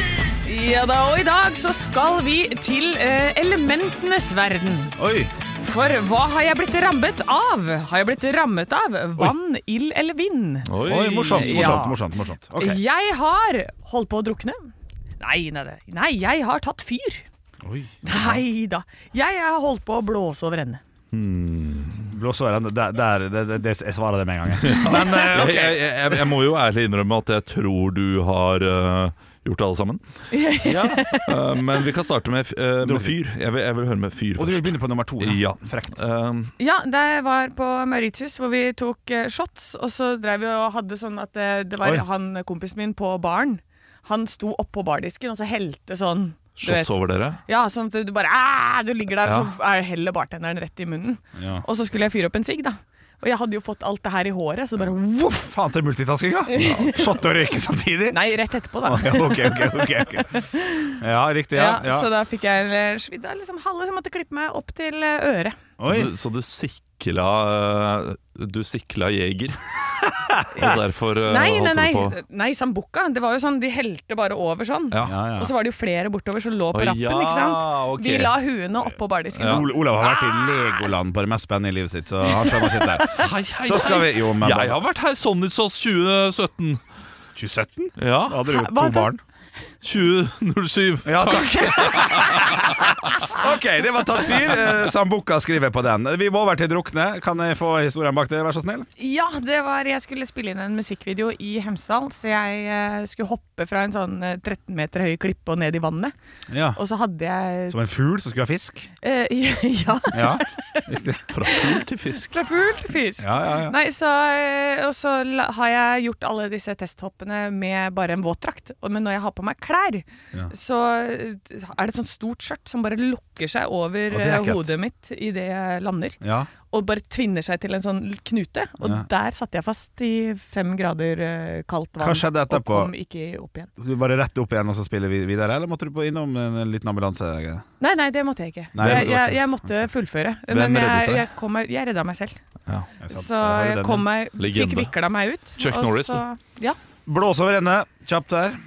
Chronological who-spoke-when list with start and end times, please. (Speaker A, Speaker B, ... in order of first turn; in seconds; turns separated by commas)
Speaker A: 0.4-4.9, Speaker B: 5.0-5.3, Speaker A: 5.6-12.0, Speaker C: 10.7-11.9, Speaker B: 10.8-12.8, Speaker A: 12.6-17.3, Speaker B: 17.6-18.4, Speaker A: 18.1-20.8, Speaker C: 21.1-22.1, Speaker B: 22.0-26.3, Speaker C: 24.6-30.0, Speaker A: 30.3-31.4, Speaker B: 30.6-31.2, Speaker C: 31.3-36.5, Speaker B: 32.8-33.2, Speaker B: 34.4-36.0, Speaker A: 36.6-55.4, Speaker C: 46.6-47.4, Speaker C: 49.2-49.5, Speaker B: 51.4-51.6, Speaker B: 55.3-58.2, Speaker A: 56.5-57.2, Speaker C: 56.6-57.0, Speaker A: 58.1-61.0, Speaker B: 58.8-60.3, Speaker B: 61.0-62.1, Speaker A: 61.5-65.6, Speaker B: 65.8-66.1, Speaker C: 65.8-70.0, Speaker B: 70.2-70.8, Speaker C: 70.6-72.2, Speaker A: 71.2-80.9, Speaker B: 75.0-75.5, Speaker C: 76.7-79.7, Speaker B: 79.4-84.8, Speaker A: 82.2-83.2, Speaker C: 83.1-86.8, Speaker B: 87.4-89.2, Speaker C: 88.0-88.5, Speaker A: 88.5-89.1, Speaker C: 89.8-92.9, Speaker B: 91.0-98.9, Speaker A: 99.0-106.1, Speaker B: 106.5-106.8, Speaker A: 106.7-107.8, Speaker B: 107.7-108.9, Speaker A: 109.0-110.9, Speaker B: 110.1-111.5, Speaker C: 111.3-112.4, Speaker A: 111.5-133.7, Speaker B: 113.2-113.8, Speaker B: 124.1-124.7, Speaker B: 126.2-126.5, Speaker B: 128.8-129.1, Speaker B: 132.0-132.9, Speaker B: 133.8-137.7, Speaker A: 137.8-142.4, Speaker B: 138.7-139.3, Speaker C: 138.8-139.6, Speaker C: 140.5-141.3, Speaker B: 143.0-144.1, Speaker A: 143.1-146.8, Speaker C: 144.4-144.9, Speaker C: 145.6-146.2, Speaker B: 147.1-148.6